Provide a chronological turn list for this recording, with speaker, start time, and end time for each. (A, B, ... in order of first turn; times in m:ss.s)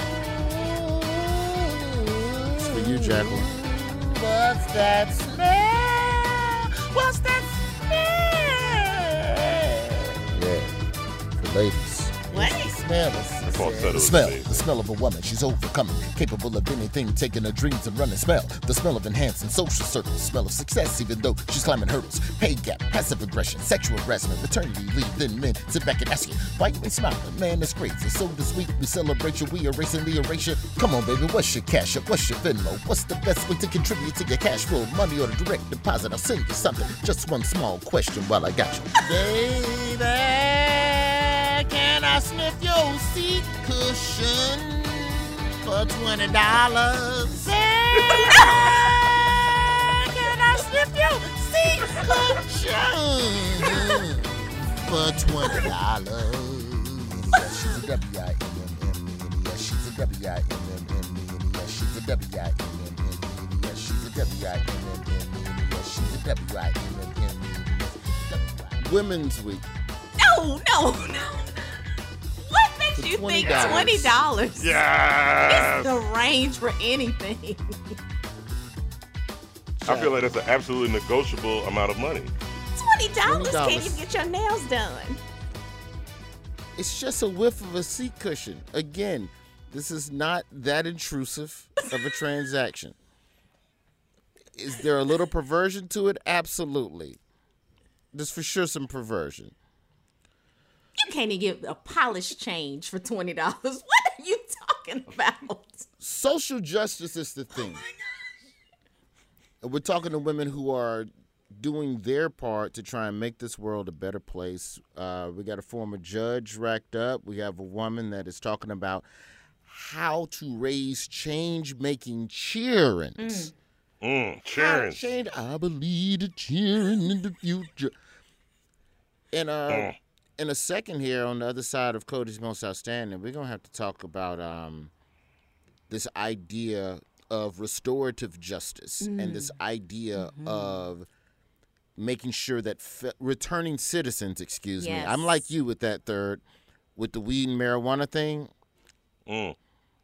0:00.5-0:01.9 A
0:02.6-0:06.5 A
0:02.8-0:03.3 B
0:07.1-0:08.6 B
0:10.2-0:10.8 A
0:11.4-0:50.6 A
0:12.3-0:12.7 B
0:13.5-0:14.7 C
0:48.2-0:49.0 B
0:50.1-0:52.4 B
0:51.8-1:09.7 A
0:57.3-0:57.9 B
1:10.2-1:11.8 B
1:12.4-1:14.8 B
1:13.0-1:14.2 A
1:14.6-1:16.0 C
1:15.5-1:18.0 B
1:19.8-1:22.3 C
1:19.9-1:20.2 A
1:22.8-1:25.2 B
1:23.2-1:24.0 A
1:26.8-1:33.0 A
1:34.6-1:37.2 A
1:38.1-1:39.6 A
1:41.0-1:45.9 B
1:46.0-1:47.8 A
1:49.6-1:59.1 A
1:59.6-2:03.5 A
2:03.2-2:03.5 B
2:04.0-2:05.1 C
2:04.5-2:08.0 A
2:09.3-2:14.9 A
2:09.7-2:10.0 C
2:15.9-2:21.1 A
2:19.0-2:19.6 B
2:20.2-2:20.9 B
2:22.0-2:26.4 A
2:24.8-2:25.5 B
2:27.0-2:28.5 A
2:29.3-2:29.6 C